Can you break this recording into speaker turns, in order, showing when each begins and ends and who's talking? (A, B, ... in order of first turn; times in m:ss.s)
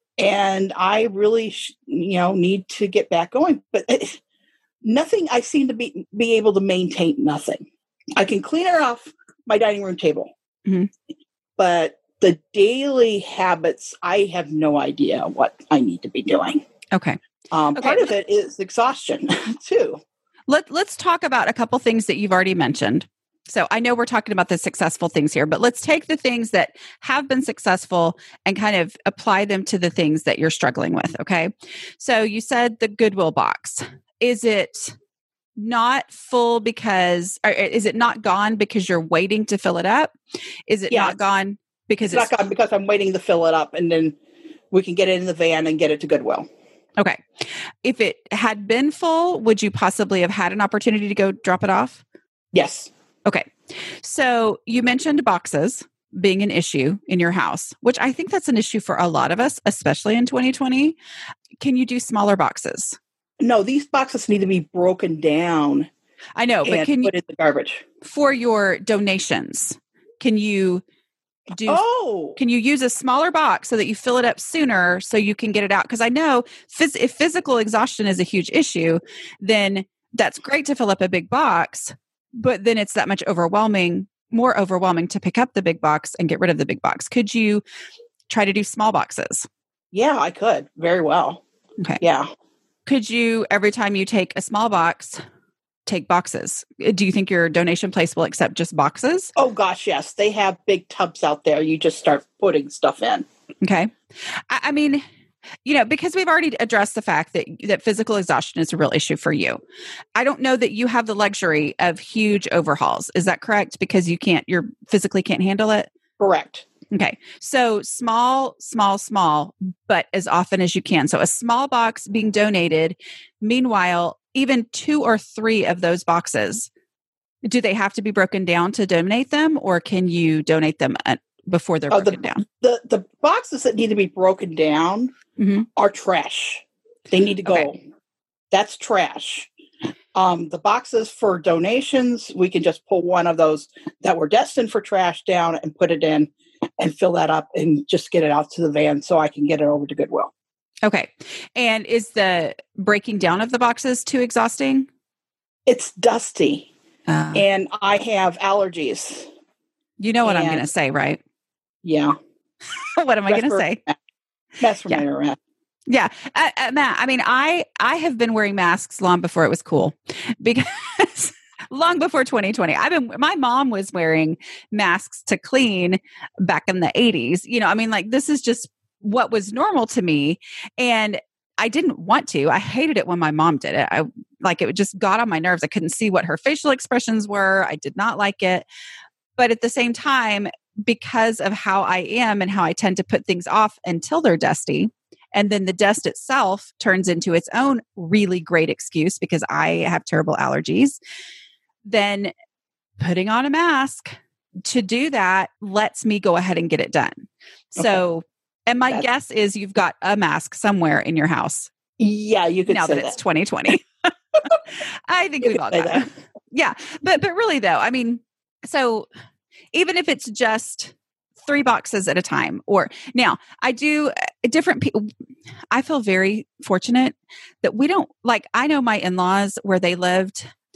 0:00.2-0:04.2 A
0:04.8-0:07.6 A
0:08.2-0:10.3 A
0:10.6-0:10.9 B
0:11.6-0:16.6 A
0:16.9-0:17.2 B
0:17.5-0:20.0 A
0:17.8-0:18.1 B
0:20.5-0:34.9 B
0:35.6-0:40.1 B
0:40.7-0:42.3 B
0:40.9-0:41.2 A
0:42.1-0:44.2 A
0:44.7-0:46.5 A
0:47.0-0:52.0 B
0:52.5-0:52.9 A
0:54.0-1:01.0 B
1:01.6-1:03.0 B
1:03.4-1:05.9 A
1:06.4-1:07.1 B
1:06.6-1:07.8 A
1:08.0-1:10.8 B
1:11.5-1:11.8 B
1:11.7-1:12.4 A
1:12.4-1:27.6 B
1:28.3-1:29.4 B
1:29.9-1:31.4 A
1:32.0-1:32.3 A
1:32.8-1:35.2 B
1:35.9-1:39.3 B
1:39.4-1:43.2 A
1:43.6-1:43.9 B
1:44.5-1:45.0 B
1:45.6-1:49.6 B
1:50.2-1:55.9 B
1:56.2-1:56.7 A
1:56.9-2:06.7 B
2:07.4-2:12.4 B
2:11.9-2:15.1 A
2:15.4-2:15.7 B
2:15.7-2:17.8 A
2:18.5-2:19.5 A
2:20.2-2:30.3 A
2:30.8-2:34.9 B
2:35.7-2:36.7 A
2:37.1-2:37.4 B
2:37.3-2:39.3 A
2:40.0-2:41.2 B
2:40.2-2:40.7 A
2:41.8-2:42.2 A
2:43.0-2:43.8 B
2:43.3-2:44.0 A
2:44.6-2:45.4 A
2:45.9-3:08.6 B
3:09.4-3:21.0 B
3:21.8-3:22.3 B
3:23.0-3:31.7 B
3:32.0-3:33.2 A
3:32.7-3:34.1 B
3:34.7-3:39.1 B
3:35.4-3:36.1 A
3:39.7-3:45.1 B
3:45.7-3:50.5 B